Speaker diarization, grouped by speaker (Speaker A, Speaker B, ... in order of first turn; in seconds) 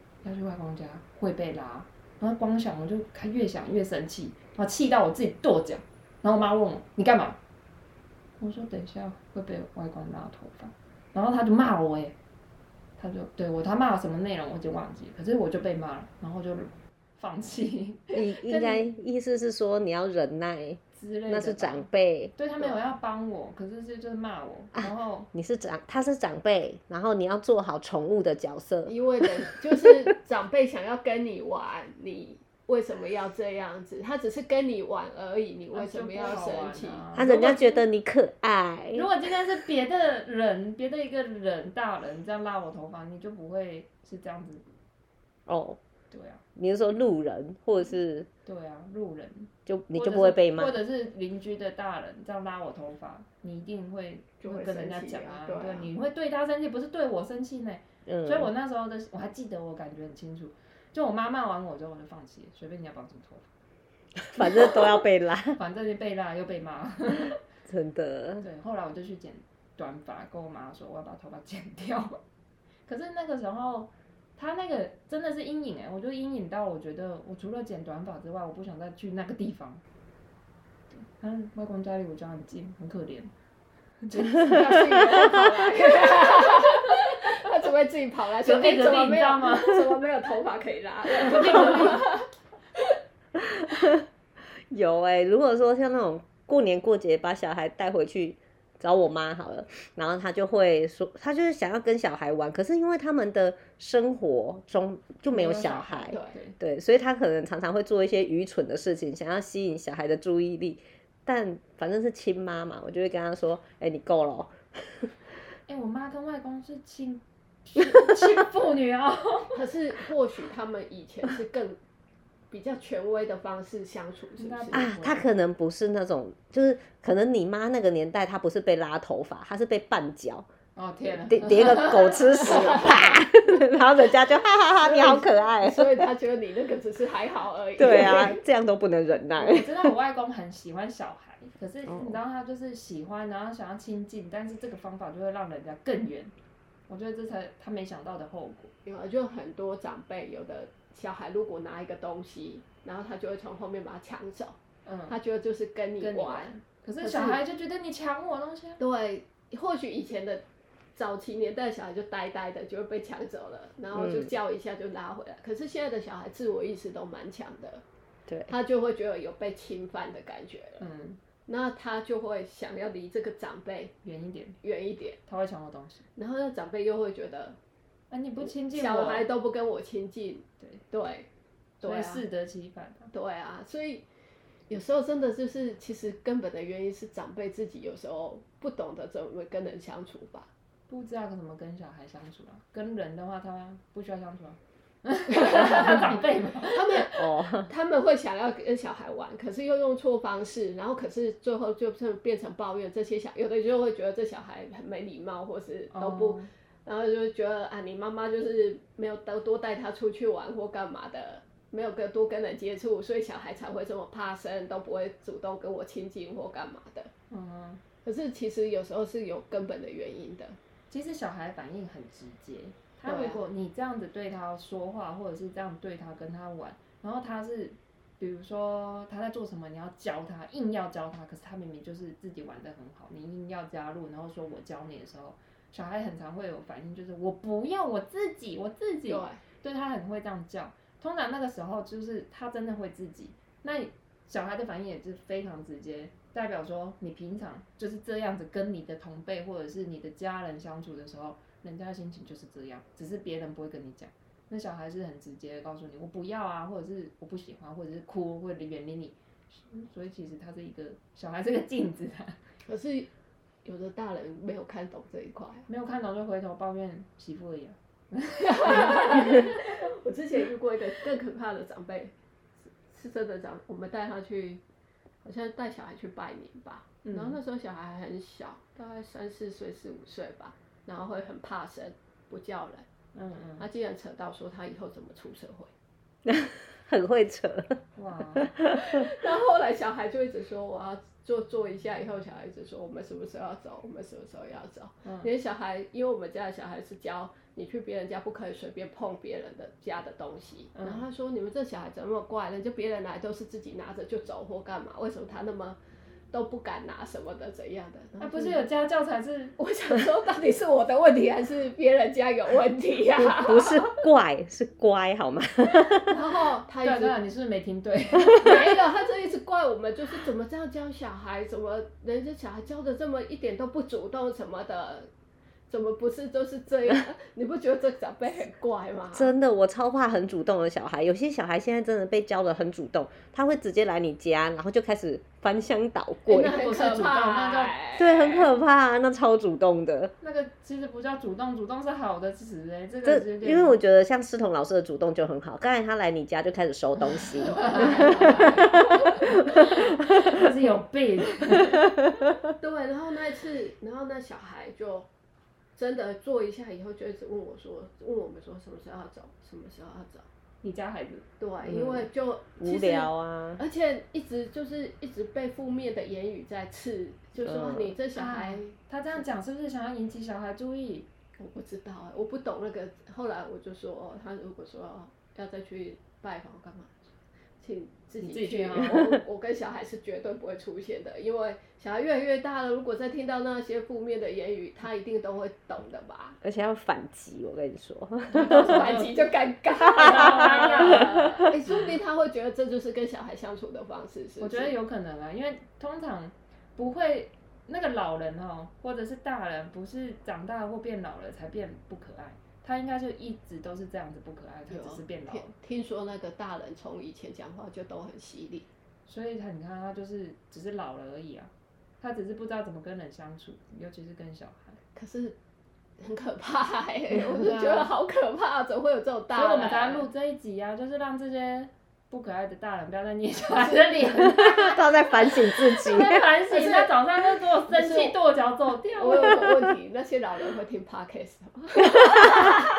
Speaker A: 0.2-7.4, 8.4-12.2, 13.0-18.9, 21.0-25.3, 35.7-37.8, 38.9-44.6, 46.1-46.4, 48.5-63.5, 65.5-67.4, 68.4-72.2, 72.9-79.8, 80.9-83.3, 84.0-86.8, 88.4-90.0, 91.2-92.1, 105.3-106.6, 115.7-119.6, 124.4-125.2, 130.8-133.2, 139.4-146.3, 146.9-148.7, 154.9-155.2, 156.0-158.8, 170.8-171.2, 174.0-174.6, 175.3-176.1, 178.1-179.3, 181.8-183.1, 190.9-197.1, 205.9-206.5, 217.3-217.8, 220.9-262.4, 265.7-269.7, 277.0-277.4, 283.1-283.7, 288.0-288.5, 295.0-295.3, 300.8-301.0, 308.2-309.6, 316.8-318.8, 336.3-337.7, 340.2-343.8, 347.5-351.9, 360.6-361.2, 368.1-371.1, 378.2-379.1, 388.3-389.3, 389.9-391.5, 394.4-405.5, 409.1-414.8, 417.3-417.9, 419.3-424.8, 425.8-429.4
Speaker B: 18.1-22.3, 25.3-28.9, 37.1-39.1, 45.5-45.8, 46.6-48.3, 49.7-50.8, 58.1-58.5, 64.2-65.6, 67.7-68.4, 93.4-94.0, 94.7-115.1, 124.7-130.5, 131.3-136.1, 137.8-139.9, 141.9-142.2, 163.9-164.3, 197.2-197.7, 286.3-287.8, 288.4-289.0, 313.2-316.1, 329.1-336.6, 338.0-340.1, 343.1-349.6, 361.7-362.1, 362.6-363.6, 367.4-367.9, 386.4-388.9, 389.9-391.5, 424.5-426.2, 431.9-432.2
Speaker C: 28.9-37.0, 54.4-55.9, 84.3-92.3, 119.5-121.8, 122.5-124.9, 132.4-132.8, 134.8-138.4, 148.8-154.6, 155.1-157.4, 158.8-160.4, 161.0-167.8, 168.5-170.8, 171.5-173.9, 174.6-175.2, 176.2-177.6, 178.4-181.3, 181.8-182.2, 183.1-184.0, 184.7-190.5, 195.3-217.1, 218.1-220.6, 223.1-223.4, 239.1-239.4, 262.7-263.1, 263.6-265.7, 268.5-274.6, 275.2-282.9, 283.6-285.7, 288.8-305.8, 306.3-308.7, 309.6-313.9, 316.1-317.2, 318.4-325.1, 325.7-329.3, 336.3-338.5, 347.4-349.4, 352.6-355.1, 355.8-360.3, 361.4-369.2, 371.4-377.1, 377.6-386.4, 388.4-394.7, 404.7-408.7, 414.9-415.4, 416.0-420.1, 423.5-424.6, 426.5-426.9, 427.7-428.1, 429.0-432.6